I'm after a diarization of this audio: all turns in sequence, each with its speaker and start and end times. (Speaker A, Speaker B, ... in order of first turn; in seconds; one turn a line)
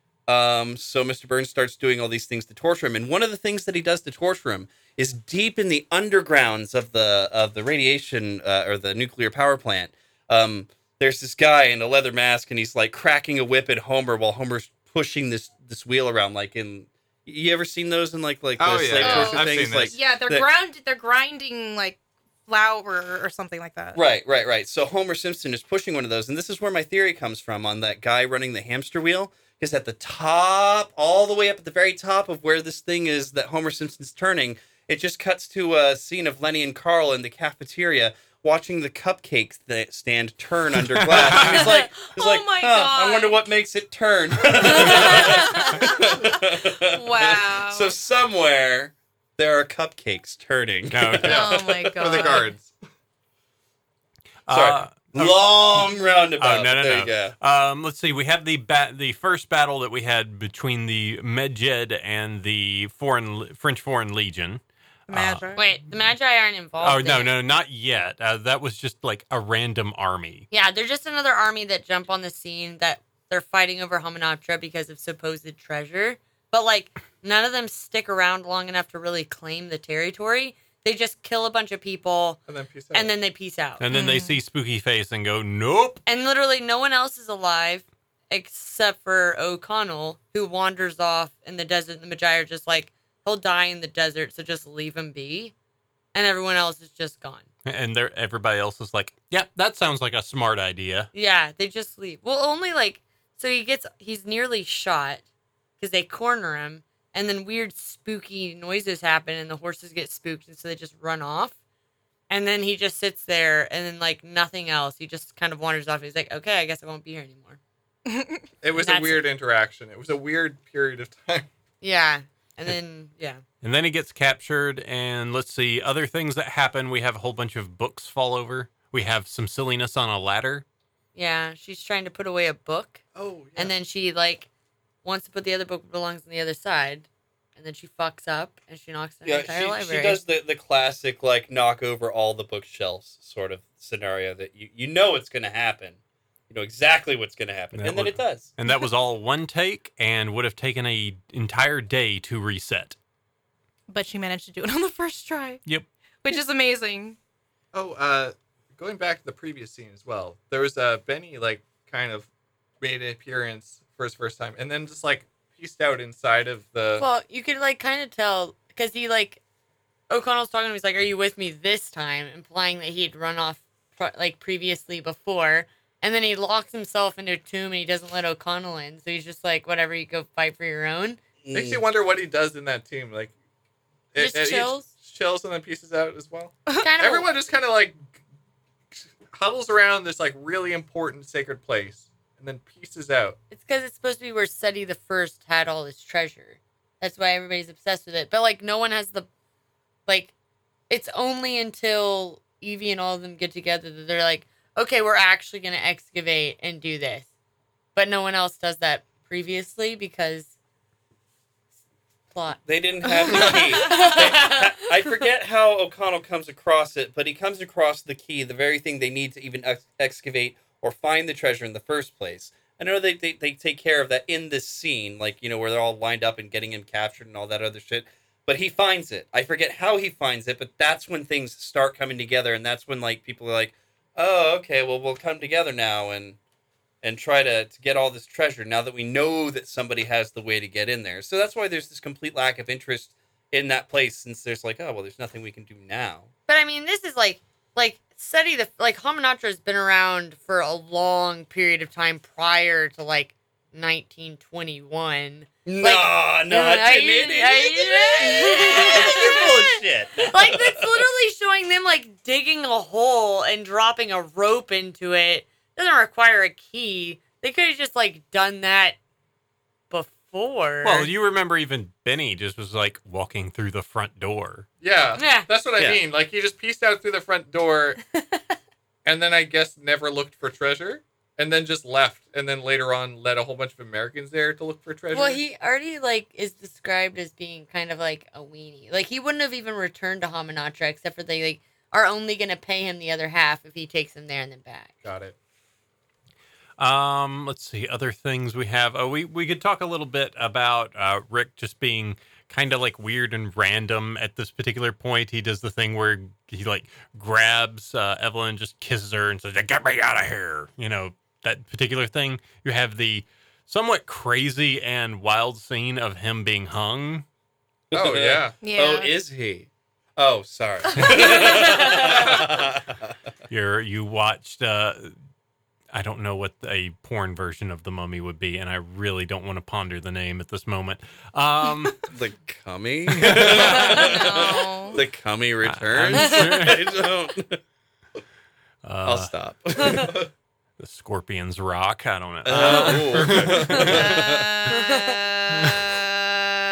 Speaker A: 0.3-20.5
Speaker B: 18.6-19.9
Speaker C: 19.0-19.4
Speaker D: 19.0-24.0
Speaker A: 23.9-52.3
Speaker E: 41.0-41.6
Speaker D: 41.4-43.4
Speaker D: 44.6-47.9
Speaker E: 50.9-51.6
Speaker D: 51.2-52.5
Speaker B: 51.2-52.8
Speaker E: 54.5-55.8
Speaker A: 54.5-57.4
Speaker E: 56.4-65.5
Speaker D: 65.1-65.7
Speaker C: 65.5-67.3
Speaker E: 66.8-70.5
Speaker C: 70.5-82.4
Speaker B: 82.5-83.1
Speaker C: 82.9-83.8
Speaker E: 83.8-86.0
Speaker D: 83.9-84.4
Speaker C: 86.0-95.5
Speaker C: 96.1-97.5
Speaker E: 97.7-101.1
Speaker C: 101.1-105.2
Speaker C: 105.8-111.5
Speaker C: 112.3-117.6
Speaker D: 118.1-118.5
Speaker B: 118.6-121.5
Speaker C: 118.7-119.2
Speaker C: 121.8-123.4
Speaker E: 123.6-130.6
Speaker C: 131.1-133.0
Speaker B: 133.1-133.7
Speaker C: 133.6-134.5
Speaker C: 135.0-140.2
Speaker A: 139.2-146.0
Speaker A: 146.5-148.5
Speaker E: 147.7-152.9
Speaker D: 153.9-155.6
Speaker D: 156.2-157.2
Speaker B: 157.7-162.3
Speaker B: 162.8-167.1
Speaker C: 167.0-169.4
Speaker C: 170.1-181.2
Speaker A: 181.4-181.8
Speaker B: 181.5-183.3
Speaker B: 184.1-188.1
Speaker C: 184.2-184.9
Speaker C: 186.8-187.3
Speaker B: 188.9-193.4
Speaker C: 193.5-199.3
Speaker C: 200.1-200.3
Speaker C: 200.9-207.3
Speaker C: 207.9-210.5
Speaker C: 212.3-214.8
Speaker A: 212.7-236.4
Speaker A: 237.0-246.3
Speaker C: 246.5-269.0
Speaker A: 255.7-261.0
Speaker D: 258.4-259.4
Speaker C: 269.9-271.1
Speaker E: 270.8-274.7
Speaker B: 274.8-278.0
Speaker C: 275.2-275.5
Speaker C: 278.2-278.4
Speaker B: 279.0-285.4
Speaker C: 285.1-294.9
Speaker B: 295.0-295.3
Speaker E: 296.8-317.2
Speaker B: 317.9-318.6
Speaker A: 317.9-323.1
Speaker D: 318.6-319.1
Speaker E: 320.9-321.2
Speaker C: 321.3-322.0
Speaker E: 323.5-325.1
Speaker E: 325.9-332.1
Speaker A: 332.1-337.6
Speaker E: 333.1-334.1
Speaker D: 333.7-335.0
Speaker E: 335.6-336.9
Speaker E: 338.8-339.3
Speaker A: 339.0-340.3
Speaker E: 340.8-344.3
Speaker A: 342.4-344.6
Speaker B: 342.7-343.9
Speaker C: 344.7-345.2
Speaker E: 345.5-345.9